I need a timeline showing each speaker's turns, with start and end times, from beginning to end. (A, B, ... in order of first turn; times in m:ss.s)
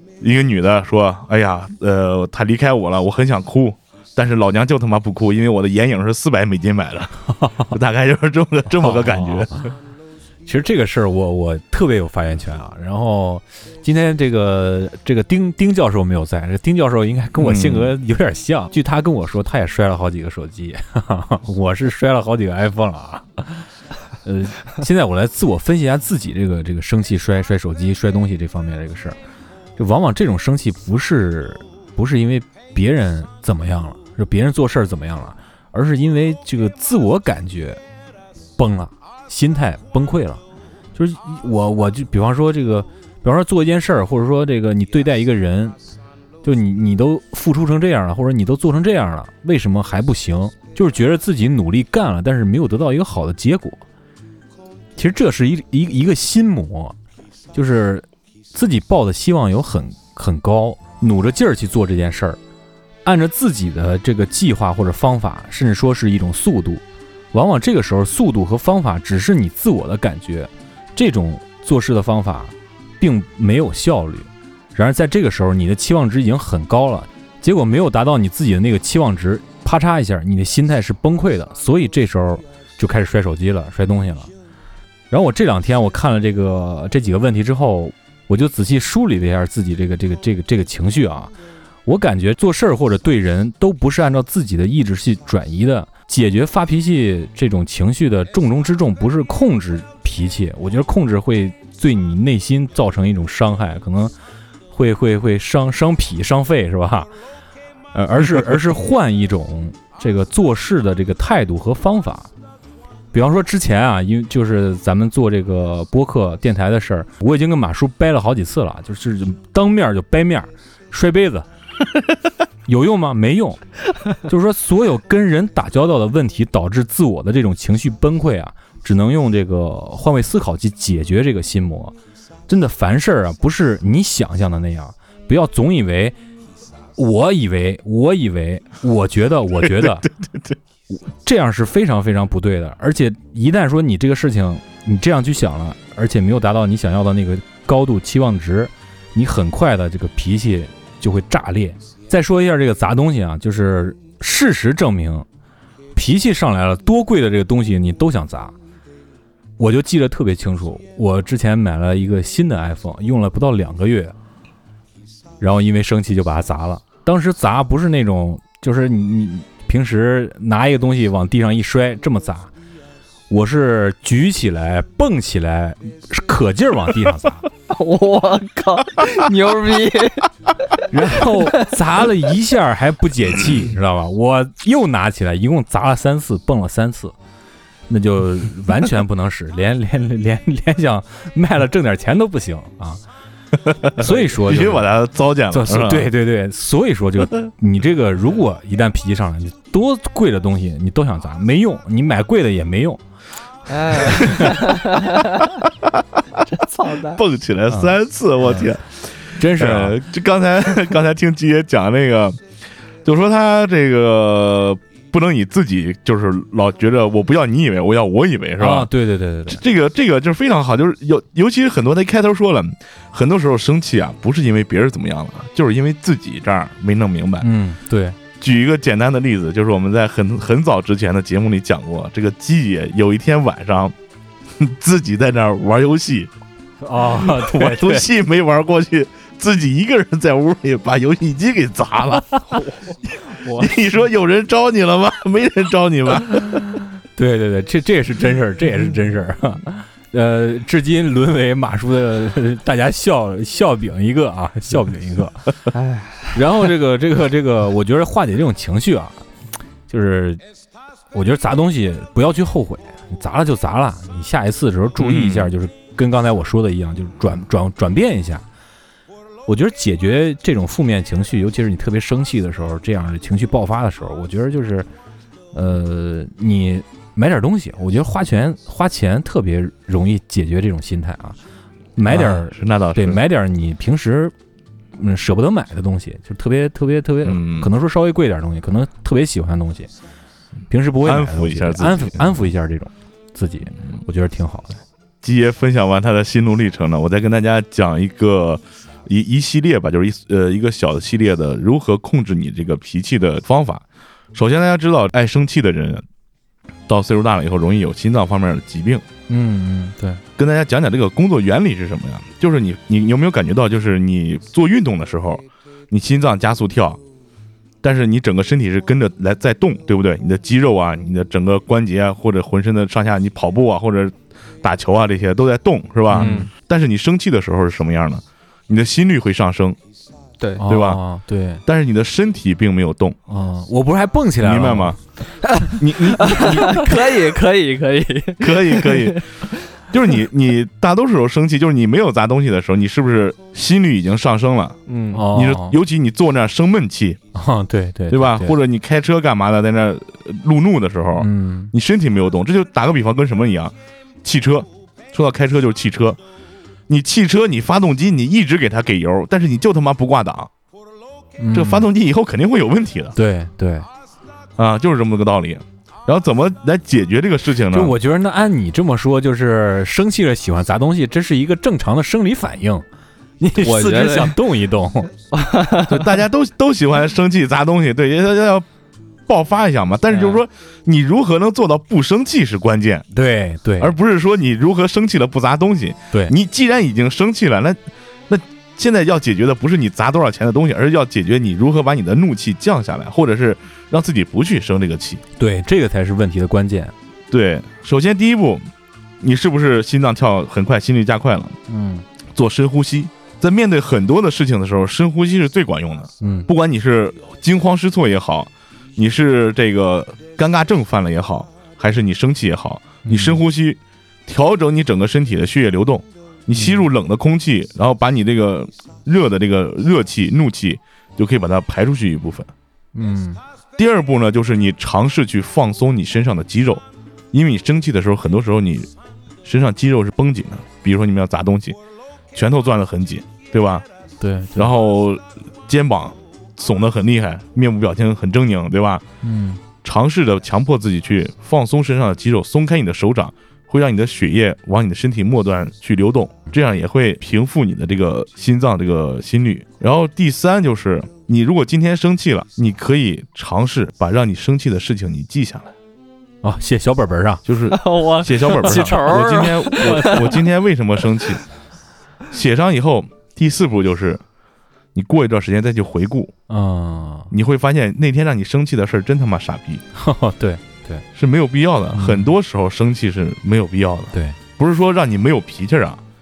0:00.2-0:07.1 A
0:07.7-0:09.7 A
0:08.8-0:09.7 B
0:10.4-0:23.7 B
0:17.4-0:17.9 A
0:24.2-0:29.2 B
0:29.8-0:37.8 B
0:38.6-0:40.4 B
0:40.9-0:45.8 B
0:46.4-0:53.8 B
0:55.0-0:56.9 B
0:57.5-1:02.4 B
1:03.0-1:24.3 B
1:25.1-1:31.3 B
1:31.8-1:44.1 B
1:44.7-1:47.1 B
1:47.9-1:52.3 B
1:53.1-2:01.5 B
2:02.7-2:03.6 B
2:04.2-2:11.9 B
2:12.5-2:16.1 B
2:17.0-2:20.1 B
2:19.6-2:20.6 A
2:20.9-2:35.2 B
2:35.9-2:38.5 B
2:39.6-2:44.1 B
2:45.4-2:52.5 B
2:53.3-2:57.5 B
2:57.7-3:01.6 C
3:00.9-3:07.1 B
3:07.9-3:13.0 B
3:13.6-3:16.1 A
3:14.0-3:14.9 B
3:15.5-3:23.0 B
3:23.7-3:25.2 C
3:23.9-3:24.4 B
3:26.5-3:27.2 C
3:27.0-3:32.4 A
3:27.7-3:28.7 B
3:29.3-3:30.0 B
3:33.0-3:38.9 A
3:38.6-3:39.6 B
3:39.5-3:47.5 A
3:47.4-3:48.2 B
3:48.4-3:53.9 A
3:54.6-3:56.3 A
3:56.8-3:58.1 B
3:57.0-4:02.4 A
4:02.5-4:03.9 C
4:03.5-4:06.6 A
4:07.2-4:15.5 B
4:15.7-4:16.4 C
4:16.3-4:19.2 B
4:19.9-4:20.4 B
4:21.1-4:28.4 B
4:25.0-4:25.5 A
4:29.4-4:34.9 B
4:35.5-4:41.4 B
4:42.0-4:44.3 B
4:42.0-4:43.2 A
4:45.0-4:49.9 B
4:47.2-4:47.7 A
4:50.7-4:54.8 B
4:51.0-4:52.4 A
4:55.2-5:06.0 A
5:06.9-5:09.0 A
5:09.3-5:10.2 B
5:10.4-5:17.0 A
5:17.8-5:29.8 A
5:26.1-5:26.5 B
5:26.2-5:26.5 C
5:30.6-5:31.6 B
5:30.6-5:31.0 A
5:31.6-5:33.2 A
5:33.3-5:35.0 B
5:34.4-5:35.0 A
5:35.5-5:36.9 A
5:36.2-5:39.5 C
5:38.4-5:39.2 A
5:39.8-5:47.2 A
5:44.9-5:45.2 C
5:45.1-5:45.8 B
5:47.3-5:48.6 B
5:48.1-5:56.2 A
5:51.2-5:51.7 B
5:56.9-6:00.5 A
6:01.4-6:01.9 B
6:01.5-6:03.1 A
6:03.1-6:03.9 B
6:04.6-6:08.0 A
6:07.7-6:12.8 B
6:13.4-6:15.1 B
6:13.6-6:14.4 C
6:15.3-6:16.1 C
6:15.8-6:18.6 A
6:19.3-6:23.0 A
6:20.1-6:20.4 C
6:23.1-6:23.9 B
6:23.8-6:35.2 A
6:35.4-6:36.9 B
6:37.3-6:38.7 A
6:39.2-6:41.6 A
6:41.7-6:42.0 B
6:42.3-7:02.5 A
6:46.2-6:46.5 B
6:53.0-6:53.4 B
6:56.5-6:56.9 B
7:02.9-7:03.4 B
7:03.8-7:08.9 A
7:09.4-7:11.8 A
7:12.3-7:13.8 A
7:14.2-7:14.7 B
7:14.5-7:19.0 A
7:19.2-7:19.6 B
7:19.8-7:35.7 A
7:36.4-7:37.4 B
7:37.4-7:41.4 A
7:37.7-7:40.4 C
7:38.6-7:40.2 B
7:42.3-7:44.2 A
7:44.9-7:46.3 A
7:46.5-7:47.3 B
7:47.3-7:49.8 A
7:50.0-7:51.0 B
7:51.1-7:56.0 A
7:51.9-7:52.3 B